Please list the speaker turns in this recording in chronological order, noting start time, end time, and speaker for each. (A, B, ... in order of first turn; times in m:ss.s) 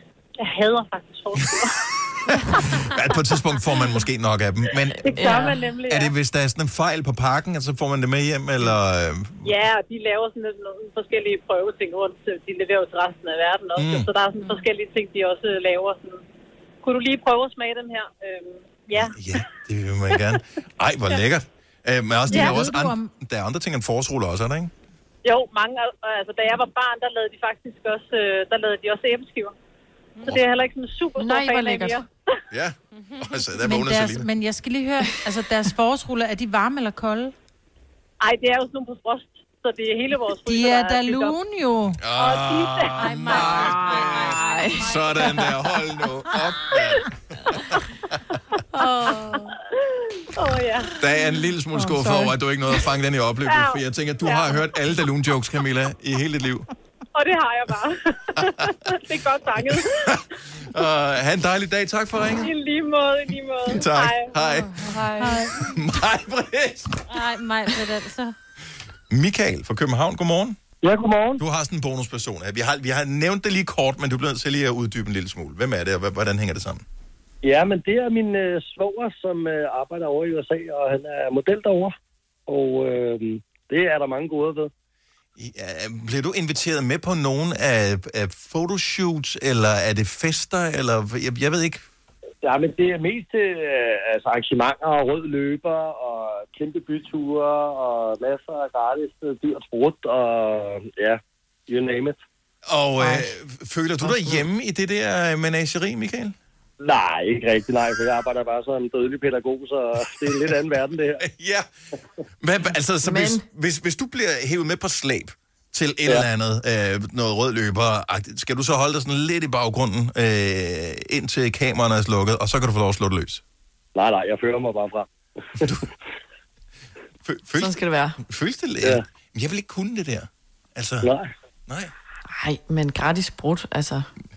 0:00.4-0:01.9 A
0:02.4-0:09.6 B
0:05.0-0:05.6 C
0:05.0-0:06.1 A
0:09.4-0:16.2 A
0:13.8-0:14.1 B
0:16.8-0:19.2 A
0:19.0-0:24.7 B
0:22.3-0:23.1 D
0:25.2-0:29.5 A
0:30.2-0:32.1 A
0:31.2-0:32.0 C
0:32.5-0:34.3 B
0:33.6-0:37.3 D
0:38.2-0:41.4 A
0:40.5-0:42.0 D
0:42.0-0:47.6 B
0:42.2-0:43.8 A
0:43.0-0:45.2 E
0:43.3-0:45.5 C
0:48.7-0:49.6 C
0:49.8-0:50.9 A
0:51.0-0:56.7 B
0:51.7-0:52.4 D
0:53.5-0:54.6 A
0:57.2-1:00.2 A
0:59.7-1:02.5 B
1:02.4-1:04.4 A
1:03.6-1:04.9 B
1:04.4-1:05.5 C
1:05.2-1:05.6 D
1:05.5-1:07.3 B
1:07.1-1:08.3 E
1:09.1-1:10.6 B
1:10.8-1:11.4 F
1:11.4-1:16.8 B
1:17.4-1:22.0 F
1:22.5-1:24.7 F
1:25.4-1:31.8 B
1:32.4-1:42.2 F
1:42.7-1:46.4 B
1:43.0-1:43.3 C
1:44.0-1:44.4 C
1:46.8-1:51.2 F
1:51.2-1:51.7 B
1:52.4-2:03.4 B
1:53.0-1:53.4 C
2:04.0-2:05.7 F
2:05.6-2:05.9 B
2:07.2-2:11.1 B
2:07.6-2:08.2 C
2:11.0-2:11.3 F
2:11.7-2:11.9 B
2:12.3-2:14.1 C